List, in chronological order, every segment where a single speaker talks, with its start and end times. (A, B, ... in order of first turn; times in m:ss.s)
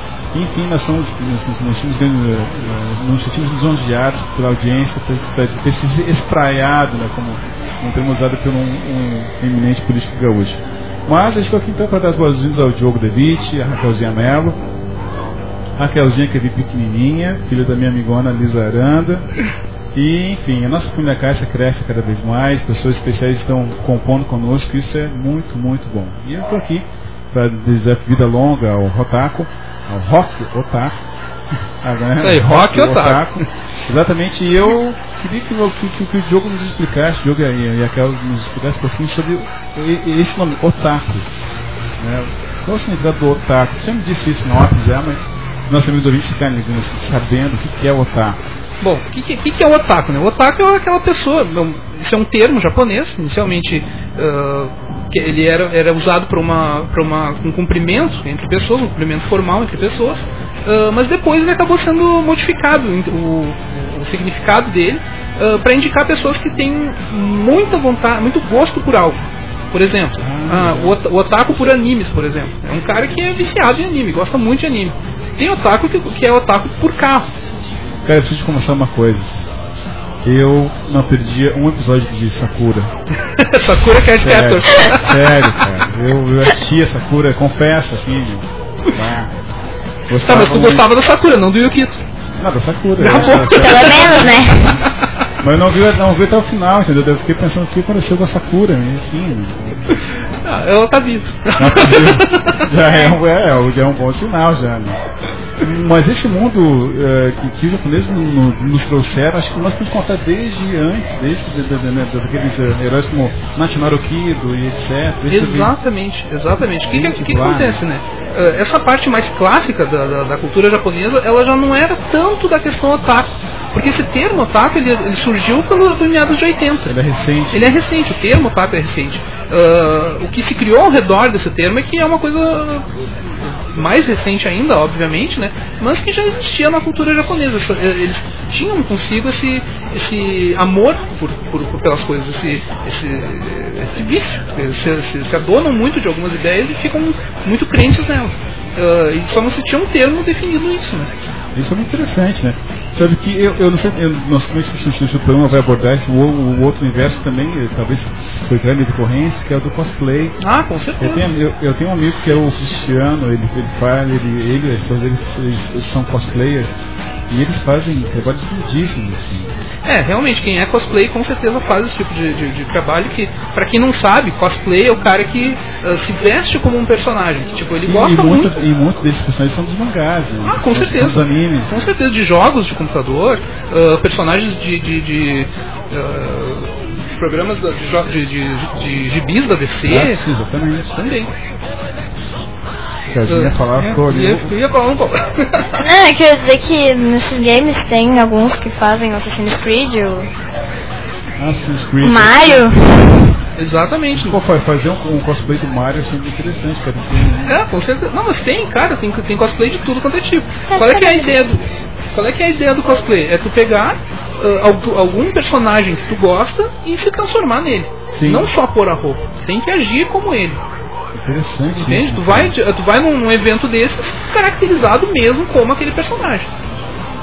0:00.3-0:14.6 A
0:15.8-0:19.3 A
0:20.0-0:31.0 A
0:31.8-0:41.3 A
0:32.2-0:33.4 B
0:42.0-0:48.4 A
0:48.8-1:17.3 B
1:10.2-1:11.0 A
1:18.1-1:19.4 A
1:20.2-1:22.9 A
1:23.4-1:25.4 B
1:24.2-1:29.3 A
1:30.1-1:30.9 A
1:30.2-1:32.0 B
1:32.4-1:34.4 A
1:33.0-1:34.3 B
1:33.3-1:34.8 C
1:35.4-1:39.7 A
1:40.4-1:42.6 B
1:41.6-1:45.0 A
1:45.6-1:55.7 A
1:55.3-2:06.9 B
1:56.8-1:57.8 A
2:06.9-2:07.8 A
2:07.5-2:12.9 B
2:13.4-2:31.1 B
2:31.6-2:40.4 A
2:40.4-2:41.3 B
2:41.0-2:46.7 A
2:47.3-2:49.5 A
2:49.8-2:58.6 B
2:57.9-3:01.7 A
3:00.5-3:10.2 B
3:09.9-3:11.0 A
3:11.0-3:11.3 B
3:13.1-3:14.5 A
3:13.3-3:15.8 B
3:15.8-3:20.3 C
3:21.4-3:22.7 A
3:22.0-3:22.8 C
3:23.6-3:24.4 B
3:24.2-3:27.6 A
3:27.5-3:40.6 B
3:30.7-3:31.3 C
3:38.1-3:38.5 A
3:41.2-3:42.5 A
3:41.8-3:46.5 B